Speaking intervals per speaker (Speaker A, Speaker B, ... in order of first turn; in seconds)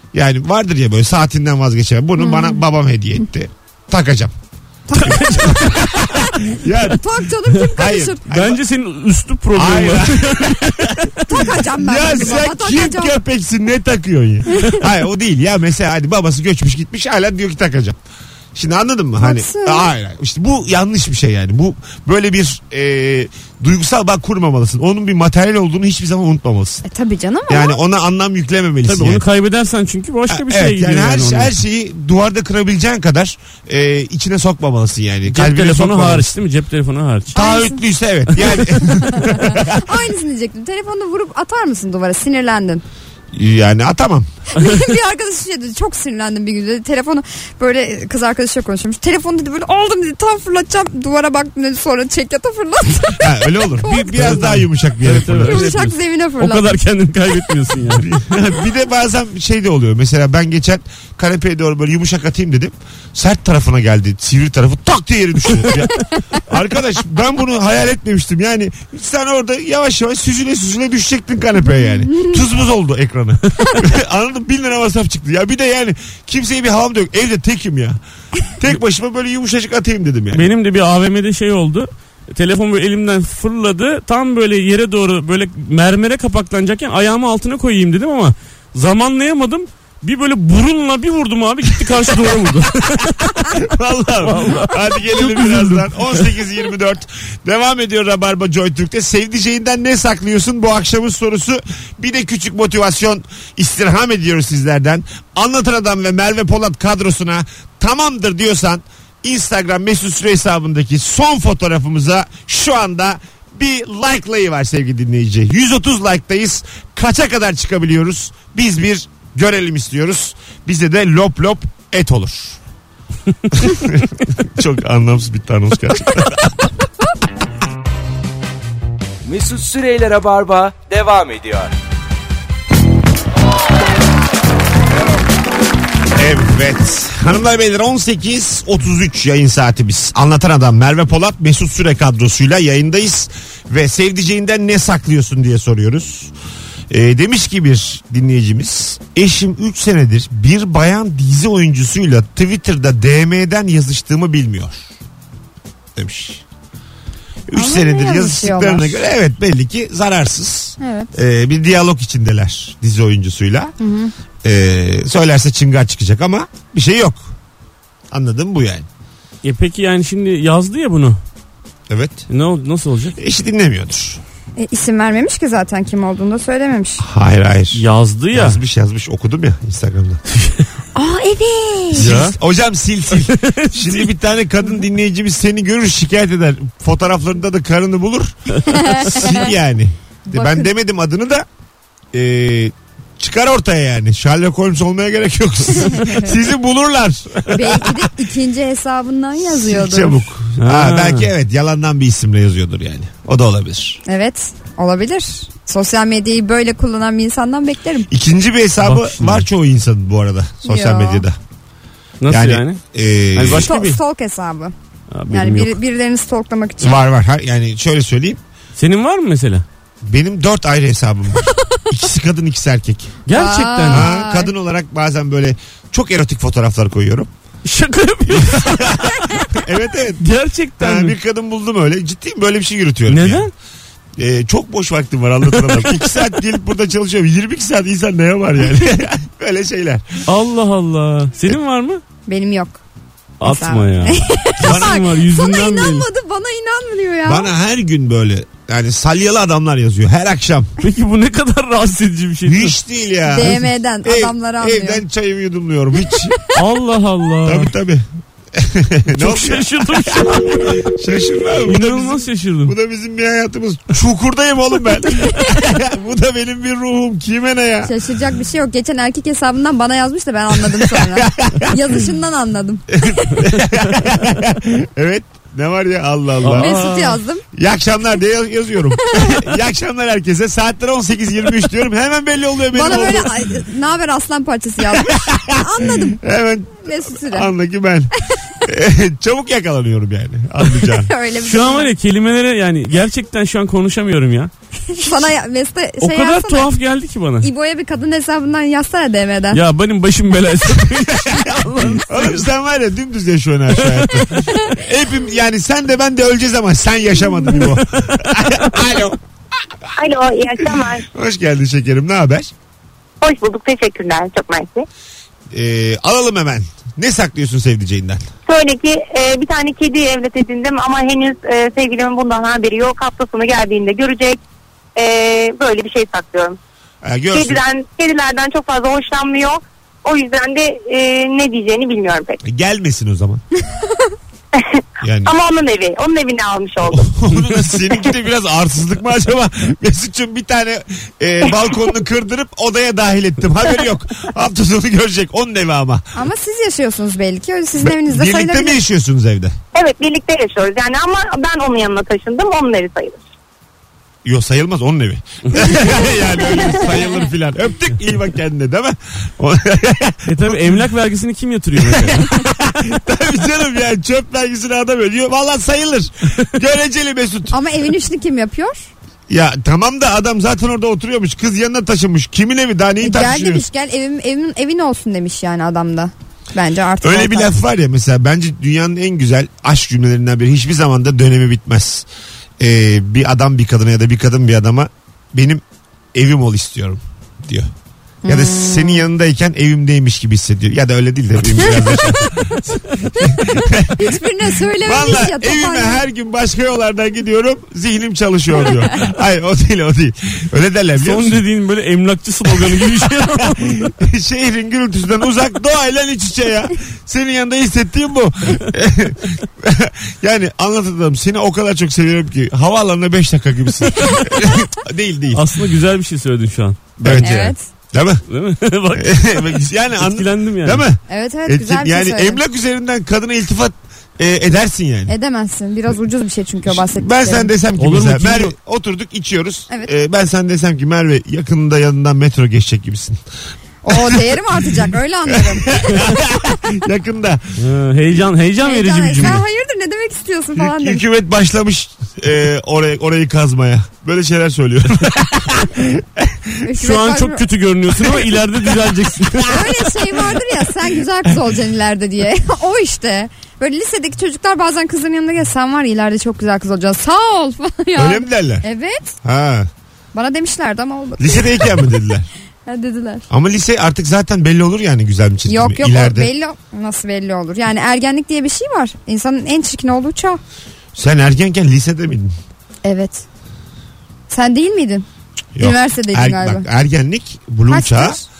Speaker A: 0.1-4.3, 5.0-7.0, 7.6-8.6, 9.5-18.0, 18.5-26.8, 27.5-29.2, 30.3-36.3, 37.3-39.8, 43.3-44.3, 53.2-55.7, 58.0-78.0, 78.5-80.5, 93.5-122.6, 123.5-126.5, 136.1-146.3, 146.9-154.9, 155.9-156.4, 157.5-163.7, 164.4-167.3, 168.1-168.9, 171.9-172.3, 173.2-174.2, 177.0-180.2, 181.9-191.4, 192.1-198.1, 199.4-204.0, 208.1-211.4, 212.3-213.7, 216.8-218.4, 220.0-223.2, 223.9-227.3, 228.3-230.3, 230.8-233.5, 234.2-240.1, 244.6-245.0, 247.2-250.7, 252.4-256.4, 257.4-267.9, 270.6-271.8, 272.9-276.7, 277.5-283.3, 284.9-288.1, 288.6-291.1, 301.2-301.5, 302.0-309.2, 310.8-312.5, 315.5-318.3, 327.0-327.6, 332.4-333.4, 335.0-335.3, 336.9-346.0, 347.8-349.6, 354.2-360.8, 361.8-367.5, 369.3-373.6, 377.0-382.1, 382.6-385.6, 386.1-387.7, 388.2-392.6, 393.2-394.2, 394.7-401.4, 402.5-415.5, 417.0-418.2, 418.9-425.1, 426.6-433.2, 433.9-434.4, 435.3-437.4, 440.6-446.5, 448.0-448.7, 449.4-449.7, 457.9-458.6, 459.2-459.7, 461.2-462.3, 463.3-466.3, 470.9-472.3, 475.5-478.2
Speaker B: 2.2-2.6, 4.9-6.3, 6.8-8.2, 11.3-13.2, 14.5-14.8, 19.2-19.9, 26.8-27.8, 37.3-37.8, 38.9-42.8, 44.5-54.5, 55.4-56.8, 72.0-72.4, 157.5-159.0, 160.8-161.1, 163.8-164.1, 174.6-177.0, 180.9-182.1, 188.7-189.5, 190.3-190.7, 195.9-196.2, 197.5-200.2, 204.1-208.1, 210.6-211.2, 213.6-214.7, 215.3-217.0, 223.3-224.5, 242.3-242.8, 243.4-247.5, 253.3-255.0, 267.8-273.4, 276.5-277.4, 282.7-286.2, 286.8-287.5, 290.9-291.9, 294.9-296.7, 297.4-299.6, 346.1-348.8, 367.5-368.9, 373.0-377.6, 388.2-389.0, 391.6-396.0, 417.2-417.6, 421.1-422.4, 425.1-427.5, 433.8-436.3, 438.6-441.0, 446.6-447.4, 449.5-459.1, 460.1-461.9, 462.6-463.2, 465.5-470.4, 472.8-473.2, 474.3-475.0, 475.6-476.6, 477.7-478.3
Speaker C: 5.0-5.7, 8.3-11.1, 28.8-31.5, 35.3-37.3, 54.2-58.1, 80.3-93.6, 94.2-96.3, 169.4-171.2, 172.3-173.2, 177.7-178.6, 180.3-180.6, 181.9-182.3, 183.2-184.1, 200.6-201.3, 208.8-209.4, 212.2-212.8, 213.3-214.0, 215.1-215.8, 218.8-219.6, 223.2-224.1, 227.6-229.5, 230.2-231.1, 233.1-233.5, 235.5-235.9, 240.3-242.0, 243.4-246.1, 250.8-252.8, 256.5-257.7, 259.1-260.9, 261.6-262.7, 276.4-277.2, 291.4-295.2, 296.0-297.5, 299.5-302.4, 307.7-308.2, 360.3-362.4, 401.0-403.9, 414.0-414.3, 415.3-417.2, 418.3-420.8, 427.8-428.5, 437.6-439.4, 446.8-449.6
Speaker D: 129.2-131.7
Speaker E: 310.0-311.1, 313.2-314.9, 318.5-324.4, 324.9-326.6, 327.3-332.4, 334.6-337.1, 349.7-353.3